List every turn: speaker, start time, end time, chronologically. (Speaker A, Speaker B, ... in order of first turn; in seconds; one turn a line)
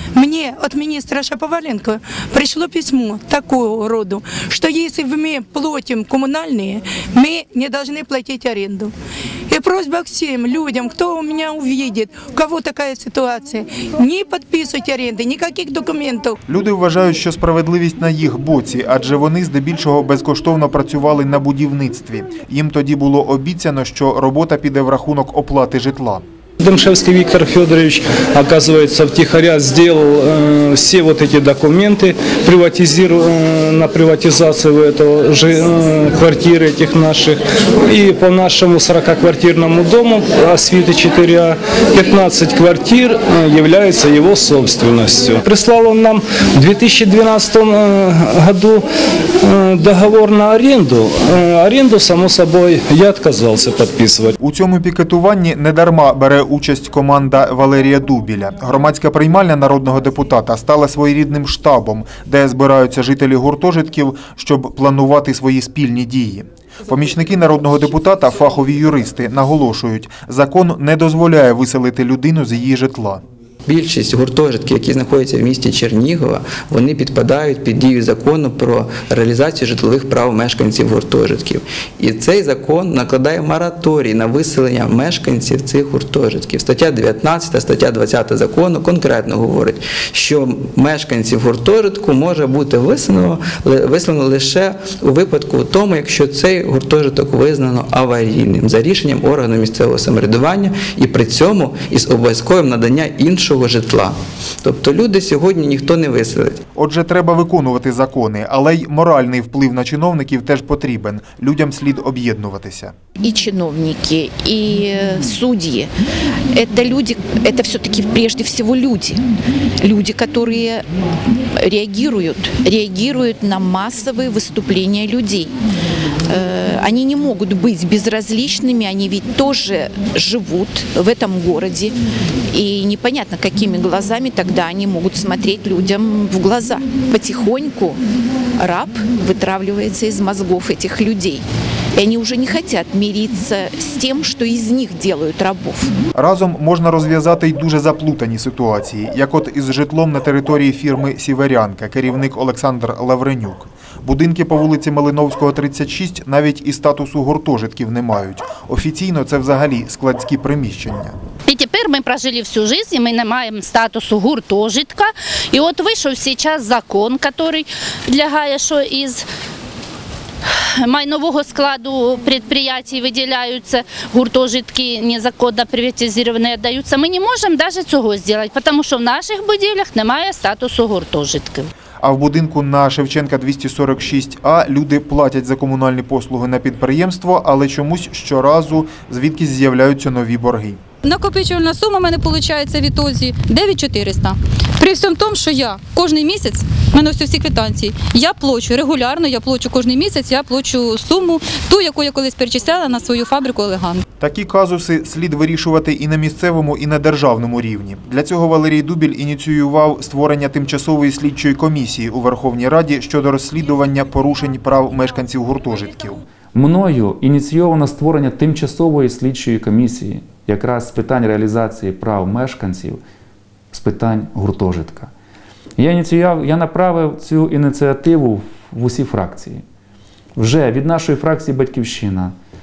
Speaker A: 0.1-8.9
Speaker A: 9.5-16.4
Speaker B: 16.5-26.2
Speaker C: 26.6-48.9
Speaker C: 49.4-54.4
Speaker B: 54.4-73.2
Speaker D: 73.7-106.6
Speaker B: 106.8-112.9
Speaker E: 113.2-115.9
Speaker E: 116.5-119.2
Speaker E: 119.8-120.8
Speaker E: 121.6-125.5
Speaker E: 126.3-131.9
Speaker E: 132.5-138.0
Speaker E: 138.6-141.4
Speaker E: 141.9-145.9
Speaker B: 146.2-161.2
Speaker F: 161.5-169.2
Speaker F: 170.5-181.7
Speaker B: 182.0-190.8
Speaker G: 191.0-204.0
Speaker B: 204.2-216.2
Speaker H: 216.5-223.0
Speaker H: 223.7-225.1
Speaker H: 225.8-229.6
Speaker H: 230.4-232.3